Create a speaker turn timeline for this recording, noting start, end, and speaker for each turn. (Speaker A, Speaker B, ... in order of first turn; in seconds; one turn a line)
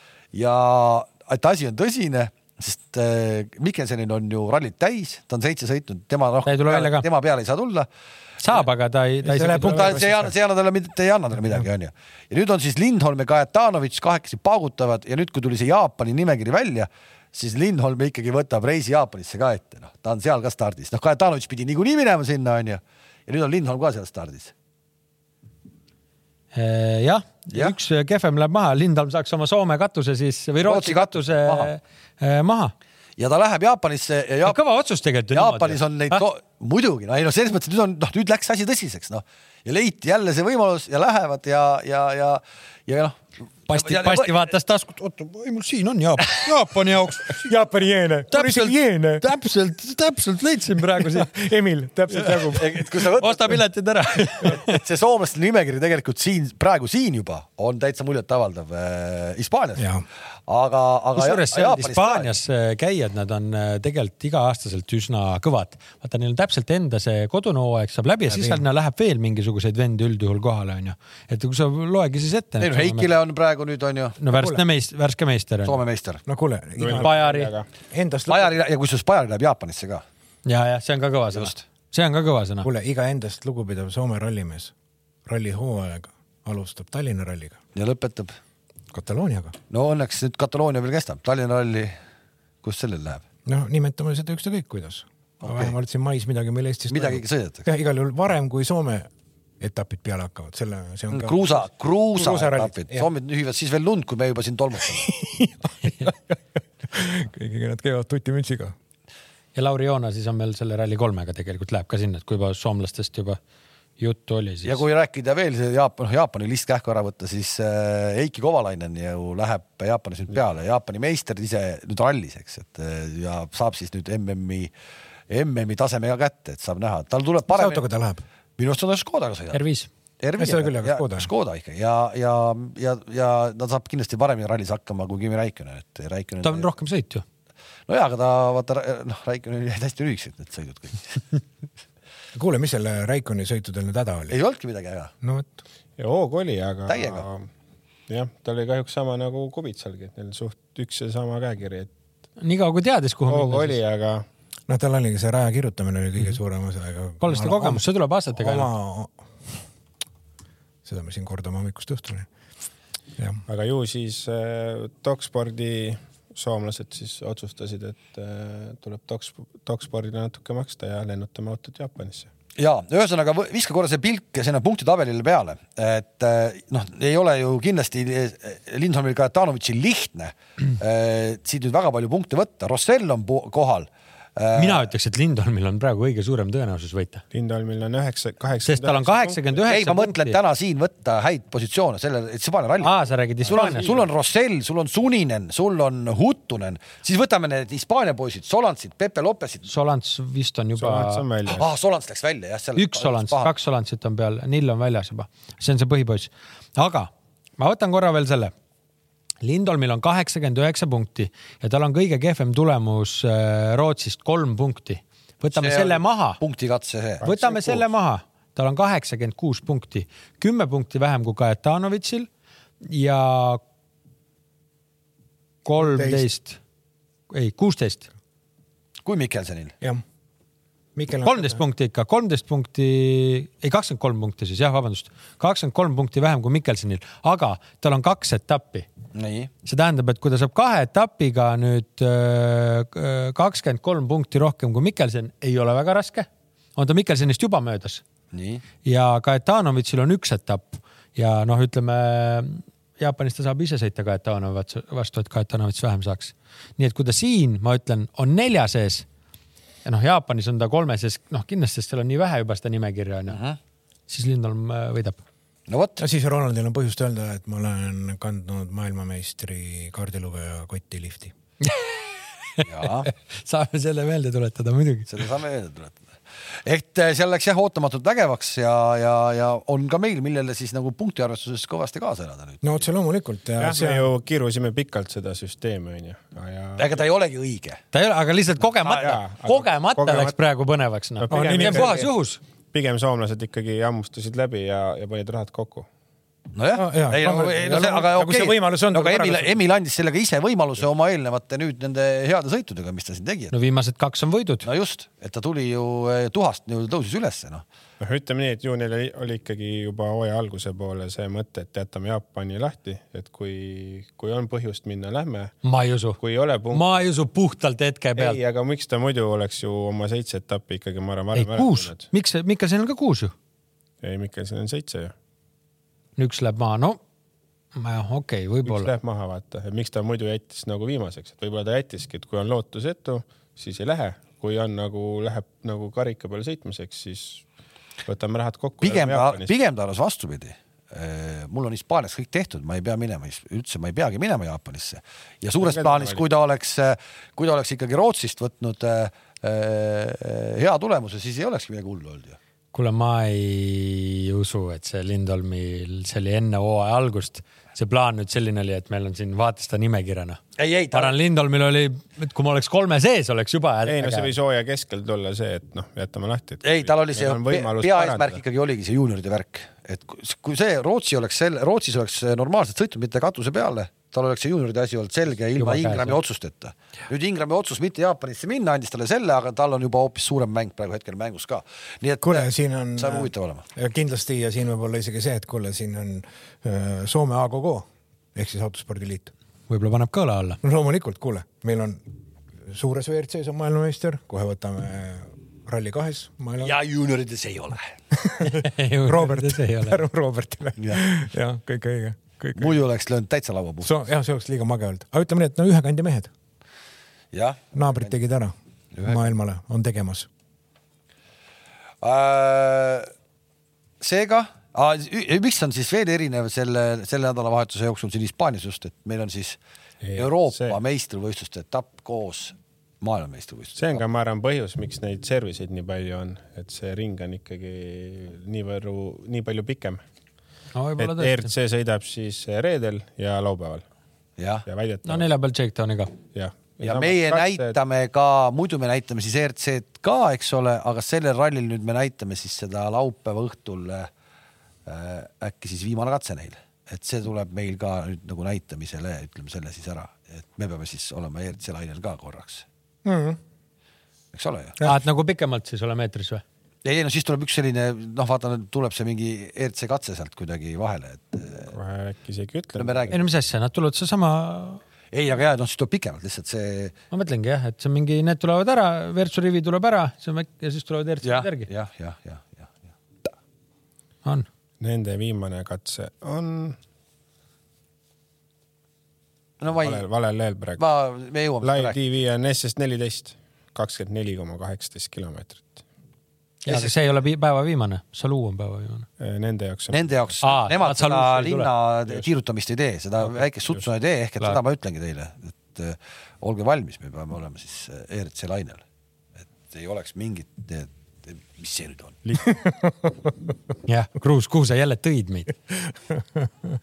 Speaker A: 0.3-7.9
Speaker B: 6.5-7.0
Speaker B: 8.4-10.0
Speaker C: 9.2-10.3
Speaker A: 9.6-24.5
Speaker B: 26.5-32.7
Speaker A: 30.6-31.7
Speaker A: 33.2-34.6
Speaker B: 34.5-36.2
Speaker A: 35.3-44.4
Speaker B: 43.7-47.5
Speaker C: 47.3-49.2
Speaker B: 48.3-51.3
Speaker C: 51.0-52.8
Speaker B: 52.2-54.8
Speaker A: 52.5-53.6
Speaker A: 54.4-59.9
Speaker C: 59.8-60.0
Speaker A: 60.5-62.3
Speaker B: 61.1-73.1
Speaker C: 68.3-68.6
Speaker A: 72.6-74.2
Speaker B: 74.2-75.8
Speaker C: 74.3-74.6
Speaker A: 75.6-76.2
Speaker C: 76.2-77.3
Speaker D: 76.8-77.6
Speaker B: 76.9-77.5
Speaker C: 77.9-78.5
Speaker A: 78.3-80.0
Speaker B: 80.4-82.7
Speaker C: 82.6-84.7
Speaker C: 85.2-87.6
Speaker A: 87.7-88.3
Speaker C: 88.9-89.5
Speaker A: 89.7-92.0
Speaker A: 92.6-93.2
Speaker C: 93.5-99.1
Speaker A: 95.4-95.7
Speaker A: 96.9-97.7
Speaker C: 99.6-103.1
Speaker A: 101.1-105.1
Speaker C: 104.9-106.3
Speaker C: 106.9-108.7
Speaker B: 109.5-113.4
Speaker B: 114.0-114.8
Speaker A: 114.6-124.7
Speaker A: 125.3-127.8
Speaker C: 127.5-128.2
Speaker A: 128.6-129.6
Speaker B: 129.5-129.9
Speaker A: 130.2-136.7
Speaker C: 130.4-131.3
Speaker B: 136.4-137.2
Speaker A: 137.9-141.2
Speaker C: 142.3-144.3
Speaker A: 144.3-145.1
Speaker C: 145.2-145.5
Speaker D: 146.0-147.5
Speaker A: 146.9-147.2
Speaker D: 148.1-151.9
Speaker B: 152.4-153.8
Speaker D: 153.3-154.2
Speaker C: 154.7-157.8
Speaker B: 157.2-158.7
Speaker C: 158.3-159.2
Speaker C: 160.8-162.3
Speaker D: 163.5-172.3
Speaker A: 172.6-184.9
Speaker B: 184.6-187.2
Speaker D: 187.3-189.6
Speaker B: 188.6-190.4
Speaker A: 189.7-192.9
Speaker B: 192.8-194.0
Speaker A: 193.4-199.7
Speaker D: 193.5-193.8
Speaker B: 199.7-201.2
Speaker D: 200.8-201.7
Speaker A: 201.5-203.5
Speaker B: 202.8-208.5
Speaker B: 209.4-216.4
Speaker A: 215.5-217.2
Speaker D: 217.2-217.8
Speaker B: 217.2-222.3
Speaker B: 222.8-223.6
Speaker B: 225.6-226.6
Speaker C: 225.8-226.2
Speaker B: 227.3-228.1
Speaker A: 229.0-229.7
Speaker C: 230.9-231.6
Speaker B: 231.2-238.9
Speaker A: 239.1-239.5
Speaker B: 239.6-248.0
Speaker A: 248.3-248.6
Speaker B: 248.8-259.1
Speaker B: 259.8-263.4
Speaker A: 263.3-263.6
Speaker B: 264.1-265.2
Speaker A: 265.7-266.0
Speaker C: 266.0-271.3
Speaker B: 271.6-272.0
Speaker B: 272.6-275.2
Speaker A: 272.6-273.1
Speaker A: 275.1-282.9
Speaker C: 282.6-284.1
Speaker D: 283.6-287.0
Speaker A: 286.8-287.8
Speaker B: 287.9-292.4
Speaker D: 288.9-290.3
Speaker D: 291.2-292.1
Speaker C: 291.3-292.1
Speaker D: 292.7-295.9
Speaker A: 296.5-303.5
Speaker C: 296.7-299.6
Speaker B: 303.5-304.7
Speaker A: 304.6-307.6
Speaker D: 308.0-315.5
Speaker B: 315.6-316.2
Speaker D: 316.2-316.9
Speaker B: 316.7-318.4
Speaker D: 318.1-322.1
Speaker B: 321.3-323.3
Speaker D: 324.0-325.1
Speaker B: 326.2-327.0
Speaker B: 327.7-328.9
Speaker D: 328.6-337.4
Speaker D: 338.0-339.5
Speaker A: 338.8-352.4
Speaker D: 345.6-346.2
Speaker B: 352.7-360.4
Speaker A: 360.6-361.1
Speaker B: 360.9-364.3
Speaker D: 363.9-368.4
Speaker A: 366.6-383.6
Speaker B: 375.6-376.2
Speaker C: 382.2-389.3
Speaker B: 389.7-390.6
Speaker C: 390.6-392.0
Speaker C: 392.6-396.8
Speaker A: 396.6-397.9
Speaker C: 398.1-402.7
Speaker B: 398.4-400.0
Speaker A: 400.8-401.0
Speaker A: 402.6-403.9
Speaker C: 403.8-406.3
Speaker A: 407.3-408.1
Speaker C: 407.7-408.5
Speaker A: 408.9-409.2
Speaker C: 409.0-410.3
Speaker A: 412.0-413.1
Speaker A: 414.0-419.6
Speaker D: 420.0-420.8
Speaker A: 420.1-424.0
Speaker D: 423.8-430.0
Speaker B: 430.7-431.5
Speaker D: 431.0-433.8
Speaker A: 434.4-434.6
Speaker D: 434.6-435.3
Speaker B: 435.0-436.1
Speaker D: 436.3-437.8
Speaker A: 436.8-444.1
Speaker A: 444.9-452.6
Speaker C: 453.0-453.4
Speaker A: 454.3-454.8
Speaker B: 454.8-456.4
Speaker A: 456.8-461.7
Speaker D: 461.7-463.2
Speaker A: 462.8-463.2
Speaker B: 463.1-464.8
Speaker A: 465.1-466.9
Speaker B: 467.1-471.7
Speaker A: 471.2-472.7
Speaker D: 474.8-476.8
Speaker A: 479.6-480.1
Speaker D: 479.8-480.8
Speaker A: 480.8-481.9
Speaker D: 481.6-485.8
Speaker B: 486.6-489.1
Speaker A: 486.7-486.9
Speaker D: 489.2-490.3
Speaker A: 489.9-498.8
Speaker B: 490.4-491.7
Speaker A: 499.6-502.2
Speaker D: 502.2-502.6
Speaker B: 503.9-505.5